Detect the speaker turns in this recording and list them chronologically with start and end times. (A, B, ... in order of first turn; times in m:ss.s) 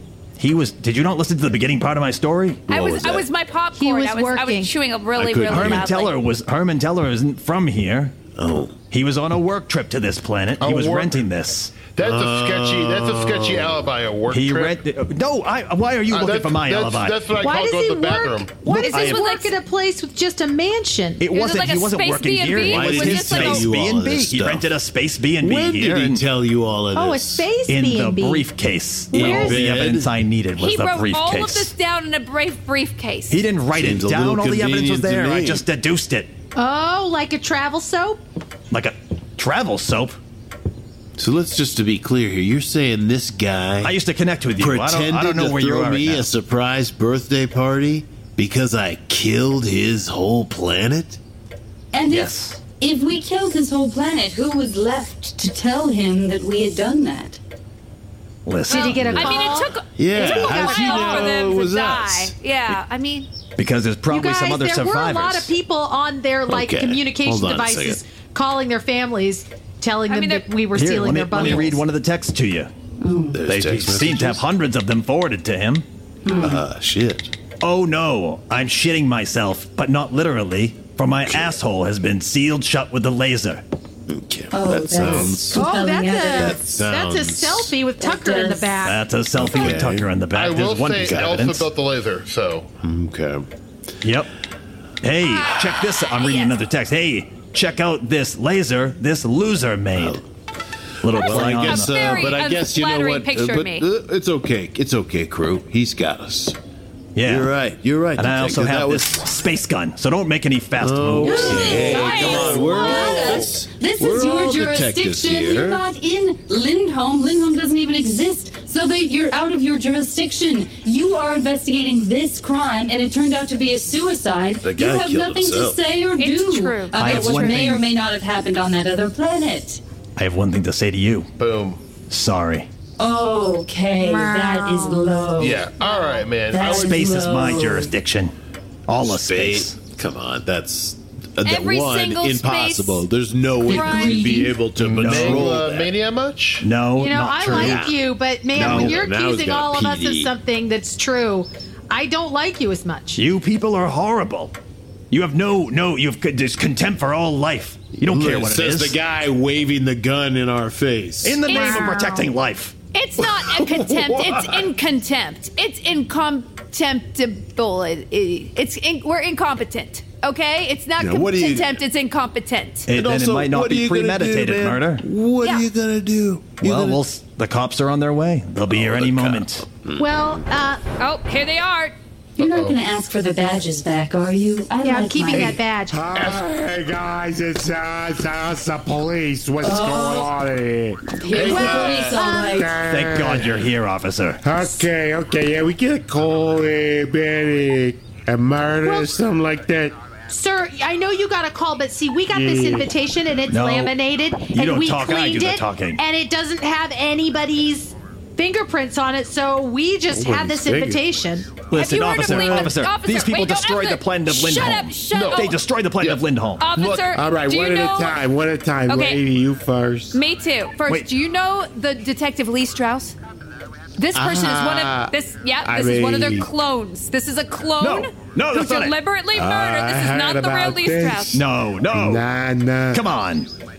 0:00.4-0:02.6 A
0:02.7-0:03.2 B
0:02.7-0:06.1 C
0:03.7-0:04.7 D
0:05.2-0:05.9 B
0:05.5-0:08.2 A
0:08.3-0:08.8 B
0:08.9-0:11.8 A
0:10.6-0:11.2 E
0:11.9-0:14.8 E
0:12.0-0:13.9 B
0:14.3-0:17.2 A
0:16.1-0:18.5 E
0:17.4-0:21.2 D
0:18.6-0:19.2 A
0:18.8-0:19.5 C
0:21.2-0:26.2 A
0:21.3-0:23.7 C
0:22.6-0:24.7 B
0:25.4-0:27.5 B
0:26.9-0:28.5 D
0:27.7-0:31.7 A
0:29.1-0:30.1 B
0:29.1-0:29.6 D
0:30.6-0:33.4 C
0:33.3-0:36.3 A
0:33.7-0:35.6 B
0:36.6-0:38.2 D
0:38.7-0:40.2 A
0:41.2-0:43.9 B
0:43.8-0:46.3 A
0:44.6-0:51.2 B
0:51.9-0:57.4 F
0:52.1-0:52.6 A
0:58.4-0:59.4 A
0:58.7-1:03.3 C
0:58.7-1:01.2 D
0:59.1-1:02.3 B
1:03.6-1:05.5 A
1:04.1-1:11.8 D
1:06.5-1:08.0 B
1:10.1-1:10.4 C
1:10.7-1:12.7 A
1:11.4-1:11.6 B
1:13.0-1:13.4 F
1:13.3-1:14.4 B
1:13.4-1:15.8 A
1:16.2-1:16.6 F
1:16.3-1:17.3 B
1:17.6-1:23.6 A
1:24.1-1:25.7 B
1:24.5-1:26.7 F
1:25.5-1:29.0 D
1:26.2-1:27.8 B
1:28.0-1:28.9 F
1:28.8-1:31.7 A
1:29.3-1:30.1 B
1:30.3-1:32.7 E
1:31.0-1:31.4 B
1:32.8-1:33.5 B
1:34.0-1:34.3 A
1:35.0-1:40.2 A
1:35.2-1:36.5 C
1:40.0-1:40.2 B
1:41.0-1:42.3 A
1:41.0-1:46.6 B
1:41.1-1:43.8 C
1:47.2-1:47.5 A
1:47.2-1:49.2 B
1:48.2-1:51.8 A
1:50.8-1:55.8 B
1:51.2-2:09.8 F
1:51.6-1:52.6 C
1:51.6-1:53.3 G
1:51.8-1:53.4 E
2:04.6-2:05.8 B
2:06.2-2:07.5 C
2:07.0-2:07.8 A
2:10.2-2:11.3 A
2:11.4-2:11.8 E
2:12.1-2:12.7 A
2:13.0-2:15.7 F
2:14.0-2:15.1 D
2:15.4-2:17.1 E
2:15.8-2:16.3 C
2:16.5-2:17.9 F
2:16.6-2:18.3 A
2:18.9-2:19.8 A
2:19.0-2:25.9 B
2:21.4-2:23.0 C
2:23.6-2:24.6 F
2:23.7-2:24.5 D
2:24.7-2:26.7 E
2:24.9-2:25.6 A
2:26.6-2:27.9 A
2:27.0-2:33.2 D
2:27.4-2:28.0 B
2:28.5-2:30.3 B
2:28.5-2:29.0 A
2:33.1-2:34.5 A
2:35.1-2:39.0 A
2:38.0-2:41.4 B
2:41.2-2:42.7 A
2:41.4-2:42.1 C
2:41.5-2:42.2 D
2:42.9-2:52.9 C
2:43.2-2:44.7 B
2:51.0-2:51.8 B
2:52.9-2:55.0 A
2:52.9-2:57.0 B
2:56.6-2:59.6 A
2:58.7-3:00.4 B
3:00.0-3:00.8 D
3:01.0-3:01.9 C
3:02.4-3:02.8 E
3:02.4-3:05.6 F
3:04.8-3:06.0 D
3:05.4-3:13.6 G
3:06.2-3:06.4 E
3:09.6-3:10.3 F
3:11.2-3:12.8 F
3:11.3-3:12.1 E
3:11.4-3:12.7 D
3:12.8-3:14.4 A
3:14.4-3:20.0 G
3:18.8-3:19.1 D
3:20.3-3:31.5 D
3:22.3-3:22.9 G
3:23.5-3:24.0 A
3:24.5-3:26.0 A
3:30.1-3:30.9 B
3:31.7-3:36.7 A
3:31.7-3:35.5 C
3:35.1-3:36.2 E
3:36.6-3:38.2 C
3:36.8-3:37.1 E
3:37.1-3:40.2 G
3:38.9-3:39.2 C
3:40.1-3:43.2 C
3:44.0-3:51.4 C
3:44.1-3:46.5 G
3:47.8-3:49.0 A
3:49.3-3:53.0 G
3:51.3-3:52.2 A
3:52.9-3:53.5 A